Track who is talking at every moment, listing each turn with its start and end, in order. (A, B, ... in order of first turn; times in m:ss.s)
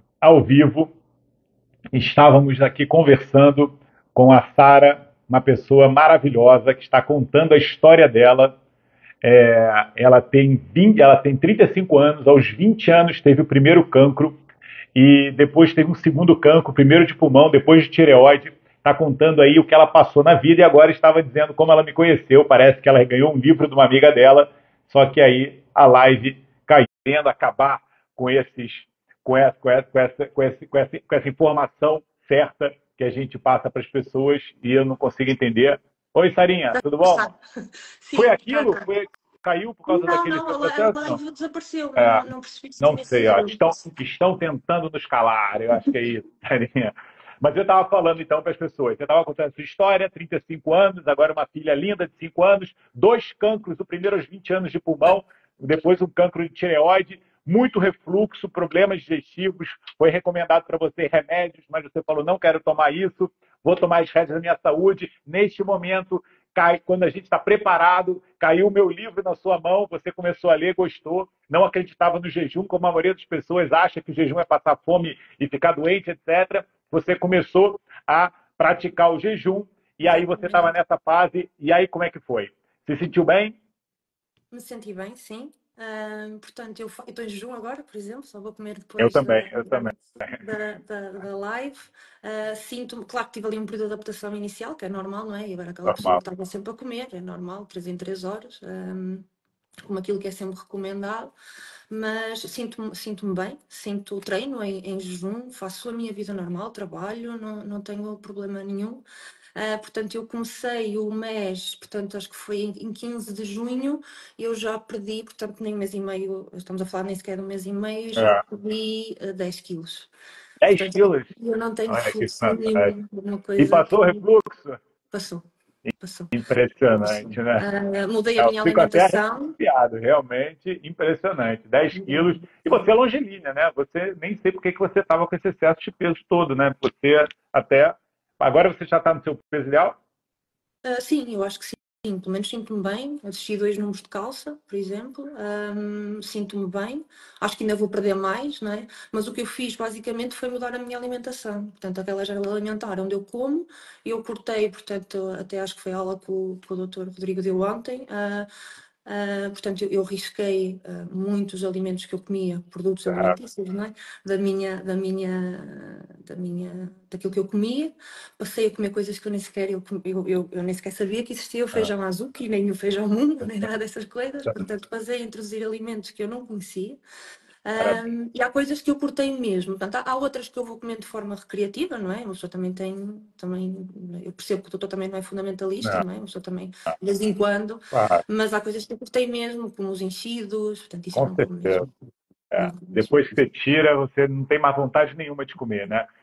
0:00.2-0:00.9 A
0:01.9-0:08.5 A
0:09.2-0:14.4 A
0:15.0-0:37.3 A
0:36.7-0:38.8 B
0:38.2-0:41.2 A
0:39.9-0:44.0 B
0:42.0-0:42.3 A
0:42.8-1:23.6 A
1:20.0-1:20.7 B
1:24.5-1:39.2 B
1:29.0-1:30.4 A
1:35.8-1:36.2 A
1:39.8-1:41.3 B
1:41.9-1:49.0 B
1:49.5-2:00.1 B
1:58.2-1:58.4 A
2:00.6-2:01.3 A
2:00.7-2:04.2 B
2:01.9-2:02.9 A
2:03.6-2:04.8 A
2:05.1-2:05.4 B
2:06.0-2:06.3 B
2:06.3-2:07.6 A
2:06.9-2:09.6 B
2:08.4-2:20.0 A
2:11.9-2:12.9 B
2:20.8-2:38.5 B
2:39.0-2:57.0 B
2:43.0-2:43.4 A
2:57.6-3:11.9 B
3:07.9-3:08.2 A
3:11.1-3:11.9 A
3:12.5-3:16.1 A
3:12.5-3:13.4 B